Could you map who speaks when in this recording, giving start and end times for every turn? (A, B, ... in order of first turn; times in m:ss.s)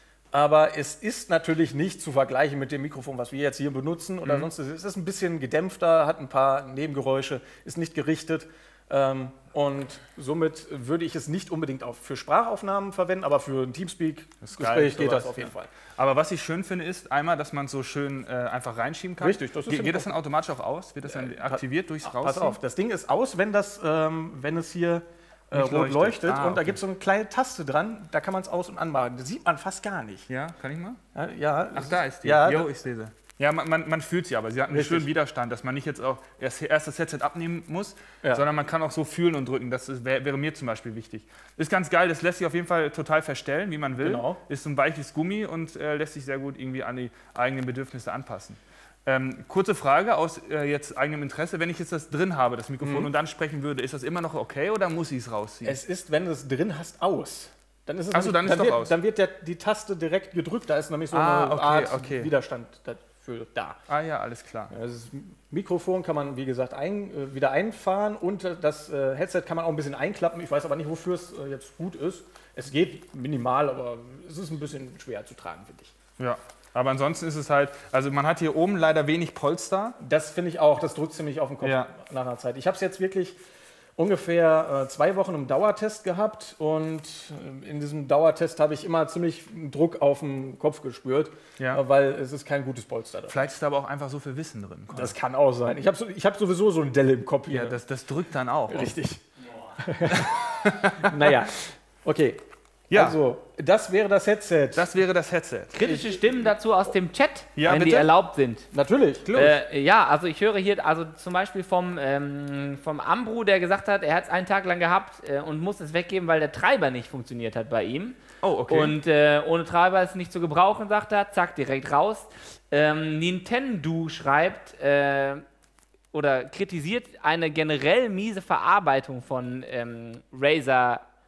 0:00.3-0:15.7 A
0:04.2-0:04.5 B
0:14.4-0:22.6 B
0:19.2-0:20.1 A
0:21.0-0:30.3 A
0:25.5-0:26.8 B
0:30.3-0:31.0 B
0:31.2-0:32.7 A
0:31.7-0:55.8 B
0:34.7-0:35.1 A
0:44.0-0:44.4 A
0:52.8-0:53.1 A
0:55.6-1:03.8 A
0:58.1-0:59.0 B
1:01.1-1:02.3 B
1:03.9-1:04.7 B
1:04.7-1:15.9 A
1:16.2-1:20.0 B
1:20.0-1:23.4 A
1:21.6-1:21.9 B
1:24.0-1:33.4 A
1:33.3-1:35.2 B
1:34.9-1:37.8 A
1:37.5-1:38.9 B
1:38.7-1:39.2 A
1:39.8-1:40.3 A
1:40.1-1:41.4 B
1:41.0-1:42.4 A
1:42.9-1:43.2 B
1:42.9-1:44.9 A
1:44.8-1:45.9 B
1:45.7-1:48.7 C
1:45.8-1:46.4 A
1:47.6-1:48.1 B
1:48.7-1:49.4 A
1:49.2-1:49.6 B
1:49.3-2:05.4 C
1:58.4-1:59.0 B
2:06.1-2:11.0 C